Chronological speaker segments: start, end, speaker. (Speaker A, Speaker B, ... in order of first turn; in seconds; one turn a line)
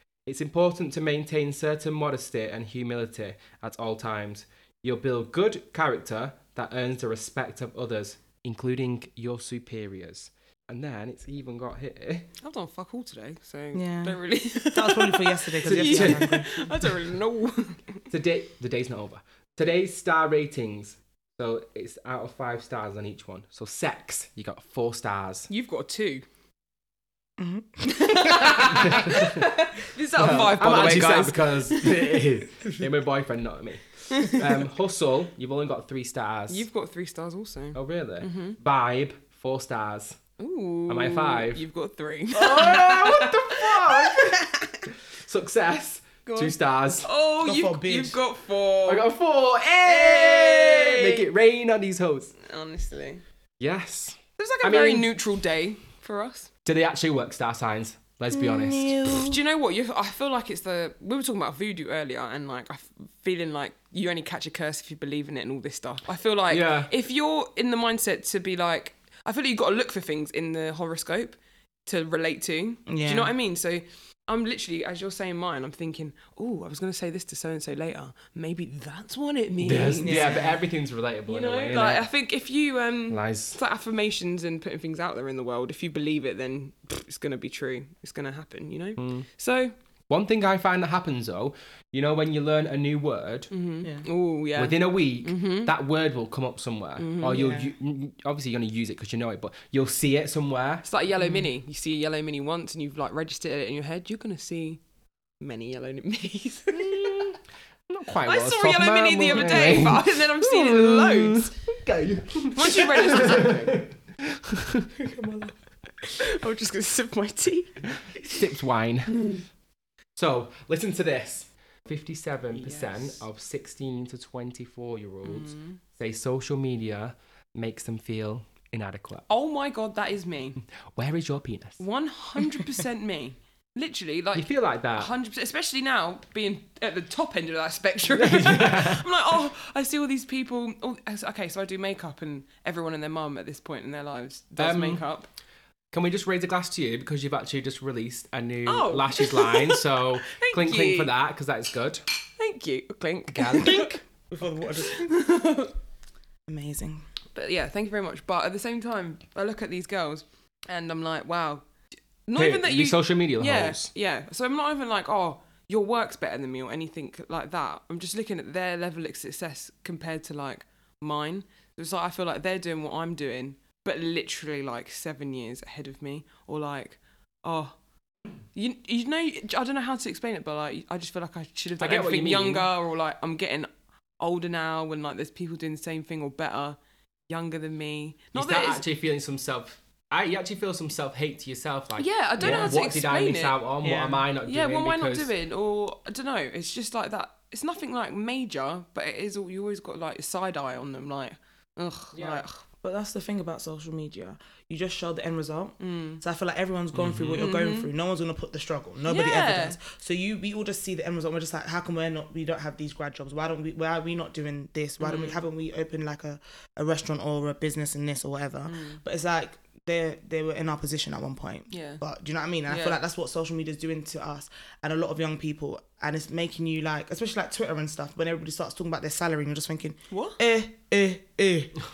Speaker A: 0.2-12.3
Speaker B: 12.4-17.8
Speaker C: 13.7-16.7
Speaker A: 15.6-16.4
Speaker A: 18.1-25.5
Speaker B: 25.5-26.2
Speaker C: 27.4-28.6
Speaker B: 27.9-32.2
Speaker A: 28.6-29.5
Speaker A: 30.1-36.6
Speaker B: 36.5-38.6
Speaker A: 37.7-40.2
Speaker B: 40.4-44.8
Speaker A: 40.9-41.6
Speaker A: 42.3-47.1
Speaker B: 46.2-49.1
Speaker C: 47.4-48.2
Speaker A: 48.9-52.3
Speaker B: 49.8-51.2
Speaker B: 52.4-53.2
Speaker A: 53.6-55.1
Speaker B: 54.4-56.5
Speaker A: 56.6-59.0
Speaker C: 58.3-59.4
Speaker B: 59.1-80.5
Speaker A: 66.5-66.9
Speaker C: 72.9-73.3
Speaker A: 79.6-82.0
Speaker C: 80.0-80.6
Speaker B: 81.3-89.7
Speaker A: 83.1-83.6
Speaker A: 89.0-89.2
Speaker A: 90.1-93.5
Speaker B: 93.5-95.7
Speaker A: 94.5-100.9
Speaker B: 97.0-97.4
Speaker C: 97.3-97.7
Speaker B: 100.8-104.8
Speaker B: 105.4-107.3
Speaker A: 106.7-114.9
Speaker B: 108.2-111.7
Speaker B: 112.5-113.8
Speaker C: 115.0-115.5
Speaker B: 116.0-118.5
Speaker A: 118.0-119.3
Speaker A: 120.2-129.2
Speaker B: 122.5-123.2
Speaker B: 125.2-125.8
Speaker B: 129.3-130.6
Speaker A: 130.8-131.8
Speaker B: 131.8-145.3
Speaker A: 134.3-135.1
Speaker A: 138.1-139.0
Speaker A: 144.6-145.0
Speaker A: 145.9-152.0
Speaker B: 148.7-151.1
Speaker B: 152.4-153.9
Speaker A: 153.3-154.0
Speaker C: 154.3-155.2
Speaker B: 154.7-155.7
Speaker C: 156.5-157.0
Speaker B: 157.3-161.6
Speaker B: 162.3-177.8
Speaker A: 162.3-163.9
Speaker B: 178.5-186.8
Speaker A: 181.8-182.7
Speaker B: 187.3-188.8
Speaker A: 188.3-195.3
Speaker B: 192.0-193.6
Speaker C: 192.4-192.7
Speaker C: 193.8-194.2
Speaker B: 194.4-202.6
Speaker A: 202.1-202.4
Speaker C: 202.8-231.7
Speaker B: 205.8-206.2
Speaker A: 206.9-207.4
Speaker B: 207.3-207.9
Speaker B: 209.1-209.8
Speaker B: 215.0-215.4
Speaker B: 218.7-219.0
Speaker B: 221.7-222.0
Speaker B: 222.7-223.0
Speaker B: 230.1-230.4